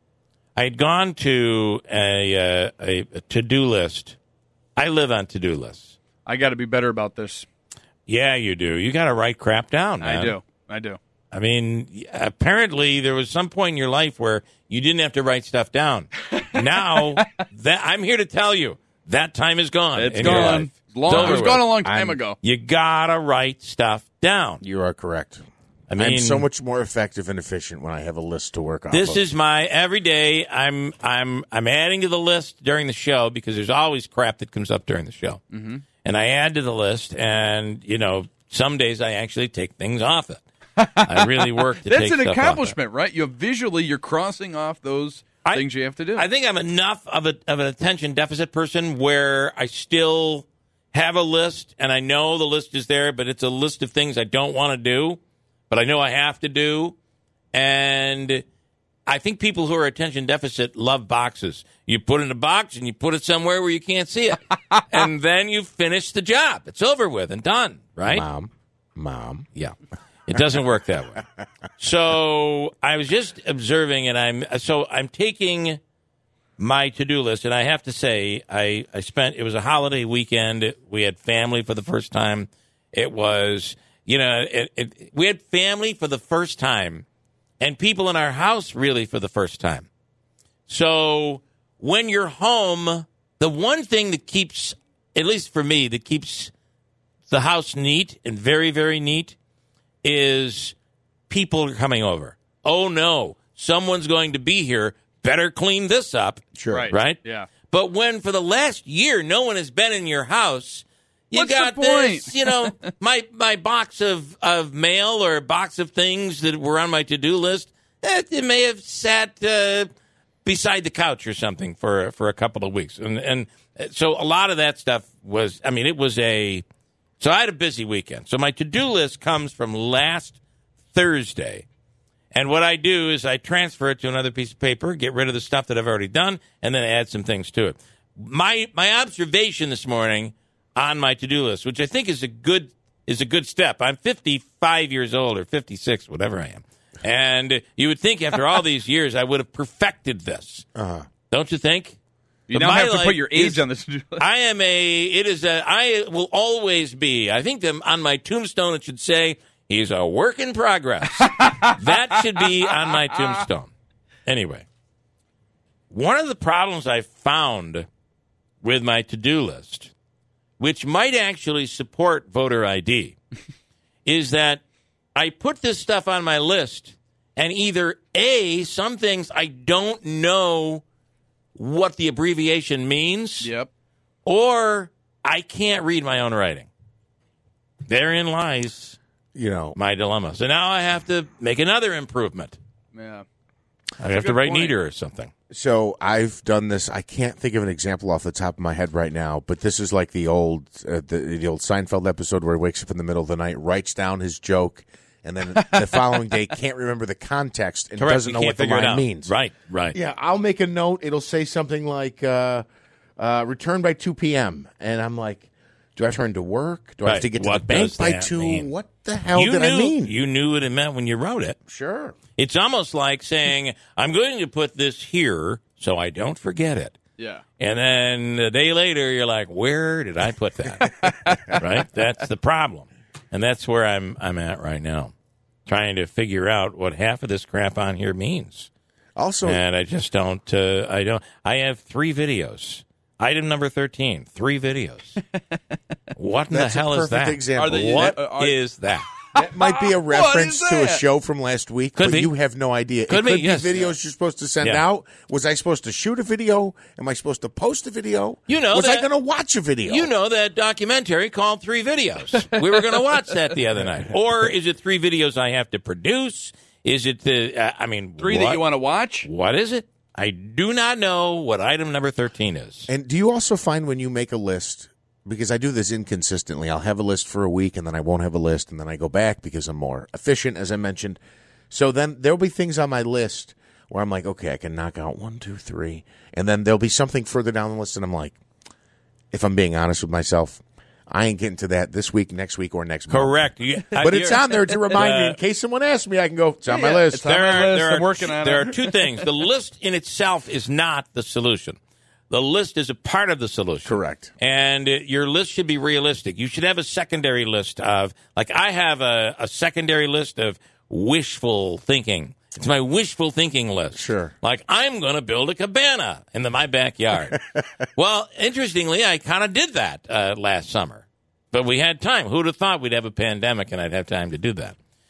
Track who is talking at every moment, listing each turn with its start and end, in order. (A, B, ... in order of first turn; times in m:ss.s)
0:00.6-0:04.2 A
0:04.8-0:05.9 A
0:06.2-0:07.5 B
0:08.1-0:10.4 A
0:10.0-0:11.0 B
0:11.3-0:21.7 A
0:16.4-0:17.2 B
0:20.0-0:22.4 B
0:20.2-0:22.2 C
0:22.4-0:24.6 A
0:24.6-0:25.4 C
0:25.9-0:26.5 A
0:26.0-0:29.2 C
0:28.9-0:35.4 A
0:35.5-0:35.9 B
0:36.0-0:40.4 A
0:40.8-0:46.2 B
0:41.0-0:42.8 A
0:45.4-0:57.0 A
0:57.5-0:58.4 A
0:59.1-1:08.2 A
1:08.1-1:09.5 C
1:10.3-1:11.2 A
1:11.8-1:15.8 A
1:16.6-1:27.0 A
1:27.6-1:29.9 A
1:30.7-1:36.5 A
1:37.3-1:39.4 A
1:40.0-1:40.8 A
1:41.3-1:59.9 A
1:46.6-1:46.9 C
1:46.7-1:47.5 B
1:51.3-1:52.9 B
2:00.4-2:06.6 A
2:07.2-2:10.4 A
2:10.9-2:11.6 A
2:12.3-2:30.6 A
2:30.8-2:31.1 C
2:31.3-2:32.0 A
2:32.5-2:34.3 B
2:32.5-2:33.6 A
2:34.2-2:43.7 A
2:41.2-2:42.5 B
2:43.1-2:43.4 B
2:44.3-2:44.7 A
2:45.9-2:47.9 A
2:48.6-2:49.9 A
2:50.6-2:53.2 A
2:54.1-2:54.6 A
2:55.2-3:00.8 A
3:01.6-3:03.5 A
3:03.4-3:03.7 B
3:04.3-3:06.7 A
3:07.9-3:09.0 A
3:09.4-3:09.8 C
3:09.8-3:12.6 A
3:12.9-3:13.2 B
3:14.0-3:15.3 A
3:14.1-3:14.8 B
3:15.5-3:29.3 C
3:25.6-3:26.2 B
3:28.0-3:30.0 A
3:29.9-3:32.6 C
3:33.2-3:40.1 C
3:37.0-3:38.7 A
3:39.3-3:41.6 A
3:41.7-3:42.2 C
3:42.4-3:47.0 A
3:47.2-3:47.4 B
3:47.6-3:55.1 A
3:50.9-3:51.4 B
3:55.7-3:58.7 A
3:59.2-3:59.6 C
3:59.4-4:05.2 A
4:06.2-4:09.1 A
4:06.5-4:08.2 C
4:07.5-4:08.6 B
4:09.3-4:11.0 B
4:09.4-4:20.1 C
4:12.0-4:12.3 A
4:13.1-4:14.0 A
4:18.5-4:19.1 A
4:19.9-4:28.6 A
4:28.2-4:29.3 B
4:29.2-4:32.9 A
4:32.9-4:41.2 C
4:41.7-4:48.4 C
4:49.3-4:57.3 C
4:53.1-4:55.4 A
4:56.7-4:59.3 B
4:57.3-5:01.8 A
5:02.3-5:17.4 A
5:03.8-5:04.3 C
5:13.9-5:14.4 C
5:18.0-5:24.8 A